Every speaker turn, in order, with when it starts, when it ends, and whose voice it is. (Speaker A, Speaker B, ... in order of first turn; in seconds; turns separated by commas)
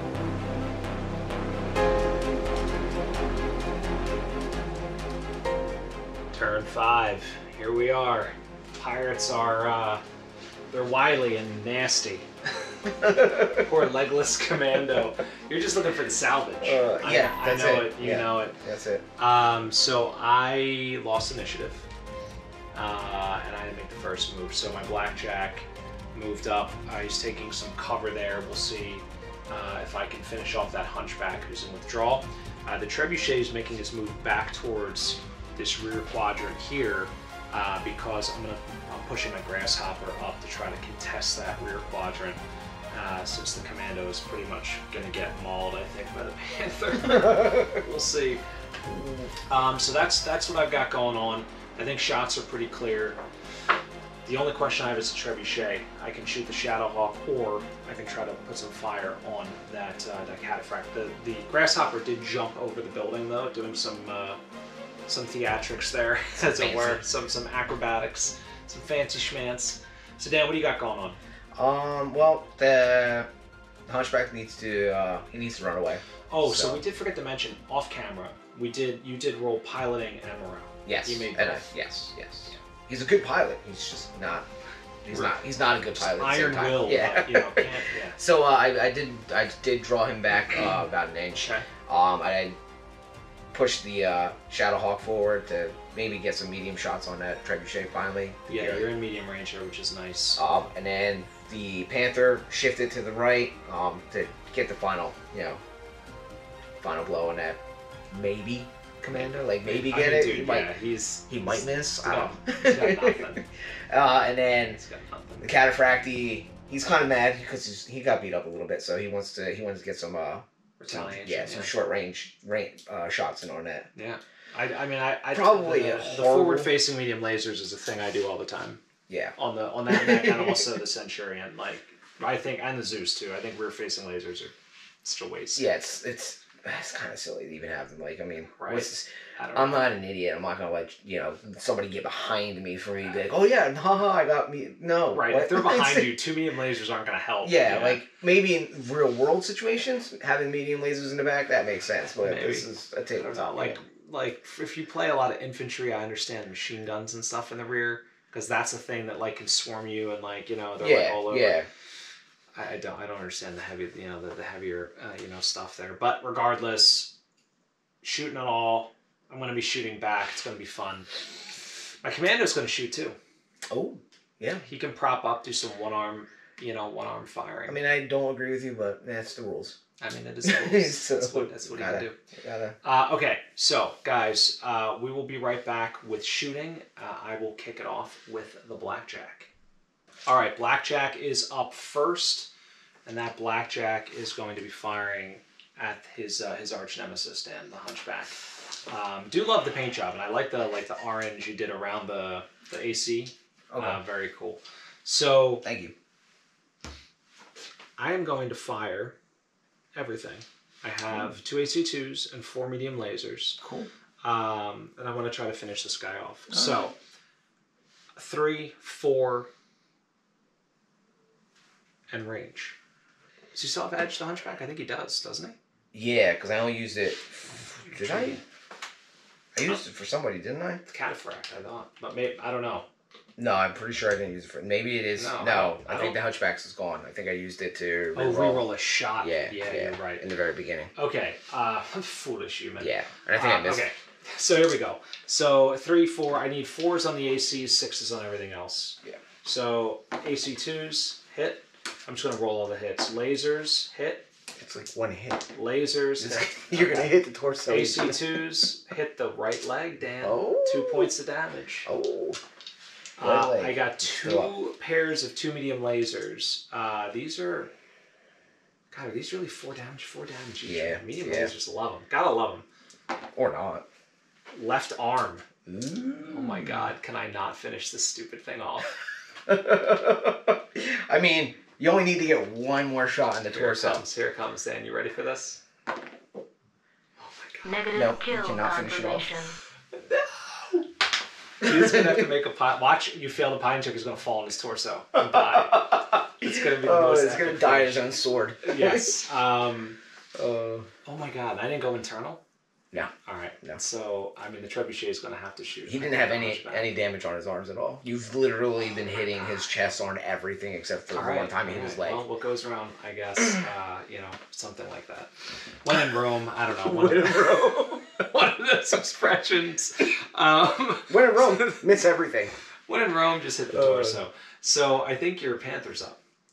Speaker A: 6.3-10.0, Speaker A: 10.7-12.3, Speaker B: 13.0-13.6, Speaker A: 13.4-18.6, Speaker B: 16.6-19.1, Speaker A: 19.2-21.9, Speaker A: 22.7-42.4, Speaker A: 42.9-48.4, Speaker B: 47.1-47.7, Speaker B: 48.9-49.3, Speaker A: 49.5-53.2, Speaker A: 54.2-64.4, Speaker A: 65.1-71.2, Speaker B: 66.3-67.0, Speaker B: 71.5-73.3, Speaker B: 73.9-76.8, Speaker A: 76.3-81.7, Speaker B: 80.8-84.5, Speaker B: 85.0-92.6, Speaker A: 85.1-85.4, Speaker A: 85.9-88.2, Speaker A: 91.4-91.7, Speaker B: 93.5-98.9, Speaker A: 98.5-100.4, Speaker B: 100.4-105.6, Speaker B: 106.8-107.6, Speaker B: 108.1-110.7, Speaker A: 109.6-113.5, Speaker B: 111.3-114.8, Speaker A: 114.7-115.5, Speaker B: 115.4-123.9, Speaker A: 120.8-121.7, Speaker A: 124.0-128.8, Speaker B: 125.3-126.8, Speaker B: 129.1-129.4, Speaker A: 129.4-135.7, Speaker B: 129.9-130.6, Speaker B: 135.6-146.1, Speaker A: 138.6-139.9, Speaker A: 145.1-148.0, Speaker B: 147.4-153.8, Speaker A: 152.2-161.6, Speaker B: 160.8-161.7, Speaker A: 162.5-167.1, Speaker A: 168.0-171.1, Speaker A: 172.0-173.2, Speaker B: 173.7-174.6, Speaker A: 174.6-177.8, Speaker B: 177.7-179.8, Speaker A: 180.0-182.2, Speaker B: 180.4-182.8, Speaker A: 182.8-189.5, Speaker A: 190.3-192.5, Speaker A: 193.1-205.7, Speaker B: 203.7-204.0, Speaker B: 205.6-205.9, Speaker A: 208.0-209.2, Speaker A: 209.9-213.6, Speaker B: 213.6-213.9, Speaker A: 214.2-216.9, Speaker B: 216.5-216.9, Speaker A: 218.2-219.5, Speaker A: 222.1-222.8, Speaker A: 223.5-225.6, Speaker B: 225.9-228.4, Speaker A: 227.8-228.4, Speaker B: 229.5-230.8, Speaker A: 230.9-232.9, Speaker B: 233.4-238.7, Speaker A: 235.2-236.2, Speaker A: 238.1-240.3, Speaker B: 239.2-240.9, Speaker A: 240.9-254.3, Speaker B: 242.8-243.9, Speaker B: 254.6-255.5, Speaker A: 255.6-257.1, Speaker B: 256.2-258.5, Speaker A: 257.6-261.9, Speaker B: 260.2-261.1, Speaker B: 261.9-262.4, Speaker A: 263.2-267.7, Speaker B: 263.2-264.5, Speaker A: 268.9-272.7, Speaker B: 270.6-271.5, Speaker B: 273.4-273.9, Speaker A: 274.5-275.4, Speaker B: 275.7-276.9, Speaker A: 276.3-279.0, Speaker B: 279.5-284.0, Speaker A: 283.5-285.6, Speaker A: 287.2-287.7, Speaker C: 287.6-289.6, Speaker B: 287.9-289.3, Speaker A: 289.9-290.9, Speaker A: 291.6-298.1, Speaker B: 291.6-292.2, Speaker B: 295.2-299.2, Speaker A: 298.6-300.0, Speaker B: 300.4-300.9, Speaker A: 301.1-302.4, Speaker B: 302.9-303.8, Speaker A: 303.3-306.9, Speaker B: 305.9-312.2, Speaker A: 311.1-315.3, Speaker A: 315.8-321.9, Speaker B: 316.8-318.1, Speaker B: 321.1-322.6, Speaker A: 322.9-326.2, Speaker B: 323.7-324.2